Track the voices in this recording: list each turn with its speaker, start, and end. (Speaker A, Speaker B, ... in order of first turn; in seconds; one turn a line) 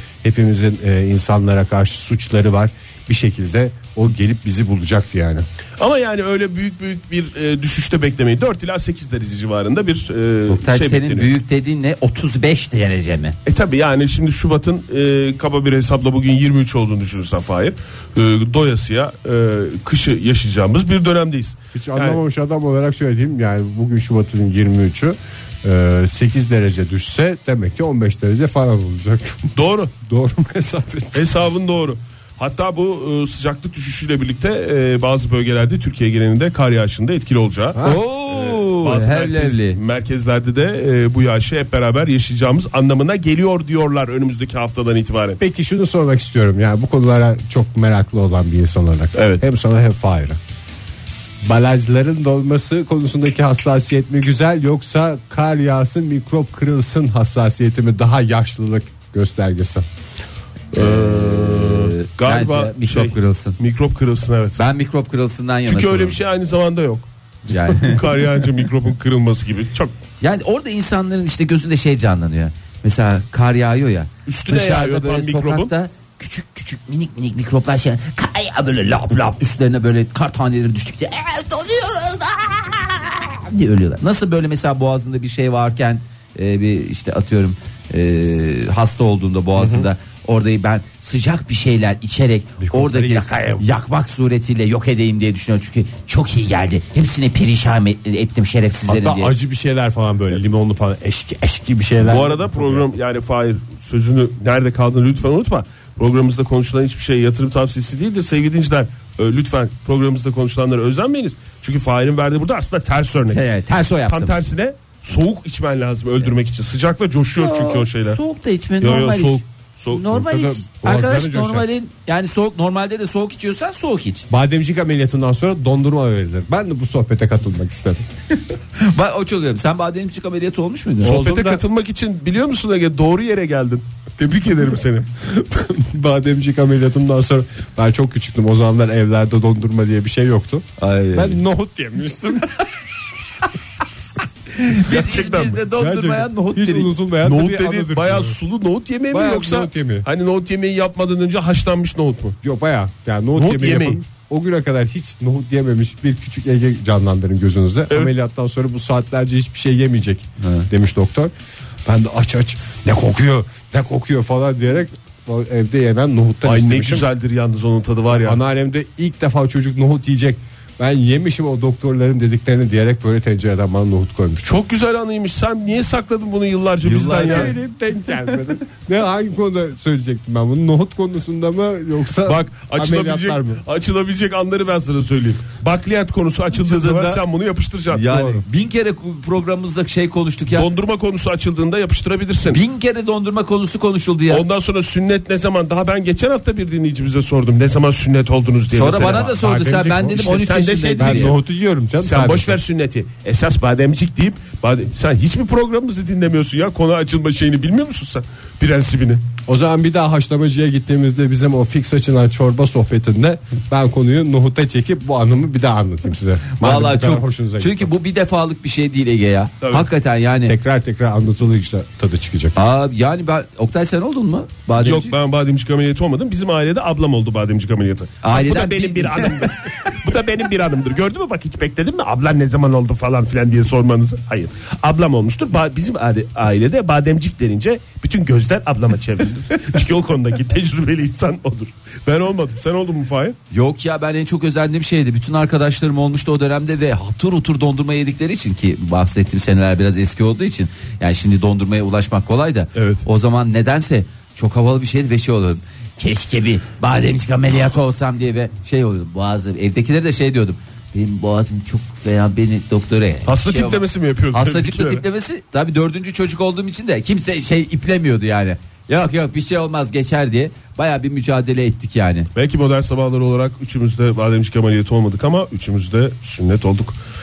Speaker A: 0.2-5.5
Speaker B: 5.8-11.3
Speaker C: 10.5-13.4
Speaker B: 13.4-22.2
Speaker A: 21.7-31.2
Speaker B: 29.5-29.9
Speaker B: 31.1-45.4
Speaker C: 37.8-39.8
Speaker A: 45.4-50.4
Speaker B: 49.1-49.4
Speaker A: 51.4-59.9
Speaker B: 60.7-64.6
Speaker C: 60.7-63.6
Speaker C: 64.6-66.2
Speaker B: 65.7-69.9
Speaker C: 67.5-68.0
Speaker C: 70.2-99.3
Speaker B: 74.2-75.7
Speaker A: 89.6-89.9
Speaker A: 92.6-93.7
Speaker A: 98.8-102.9
Speaker B: 102.0-113.4
Speaker C: 113.3-114.3
Speaker B: 114.1-118.2
Speaker C: 117.3-124.3
Speaker B: 118.8-120.2
Speaker A: 120.2-121.7
Speaker A: 124.3-128.0
Speaker C: 128.8-131.2
Speaker B: 131.0-135.7
Speaker A: 131.0-131.6
Speaker A: 135.8-142.7
Speaker C: 140.8-141.4
Speaker C: 144.6-146.9
Speaker B: 144.7-145.6
Speaker A: 145.7-148.3
Speaker B: 147.2-152.4
Speaker A: 149.1-150.1
Speaker A: 152.4-161.3
Speaker B: 153.3-154.0
Speaker C: 160.4-160.7
Speaker A: 161.8-167.1
Speaker B: 166.4-168.4
Speaker A: 168.1-174.5
Speaker B: 174.4-177.5
Speaker A: 176.8-183.6
Speaker C: 176.8-177.6
Speaker B: 182.2-188.3
Speaker A: 186.6-187.2
Speaker C: 187.9-190.7
Speaker A: 188.1-188.4
Speaker B: 190.5-192.6
Speaker C: 192.5-194.4
Speaker B: 194.3-201.4
Speaker C: 198.7-201.3
Speaker A: 198.9-200.4
Speaker A: 201.0-202.6
Speaker B: 202.0-209.2
Speaker A: 209.4-217.9
Speaker C: 216.6-220.5
Speaker A: 220.4-222.6
Speaker C: 222.5-225.1
Speaker B: 224.8-243.3
Speaker C: 228.2-229.6
Speaker C: 243.5-272.3
Speaker B: 252.7-253.0
Speaker B: 263.2-265.0
Speaker B: 272.3-276.9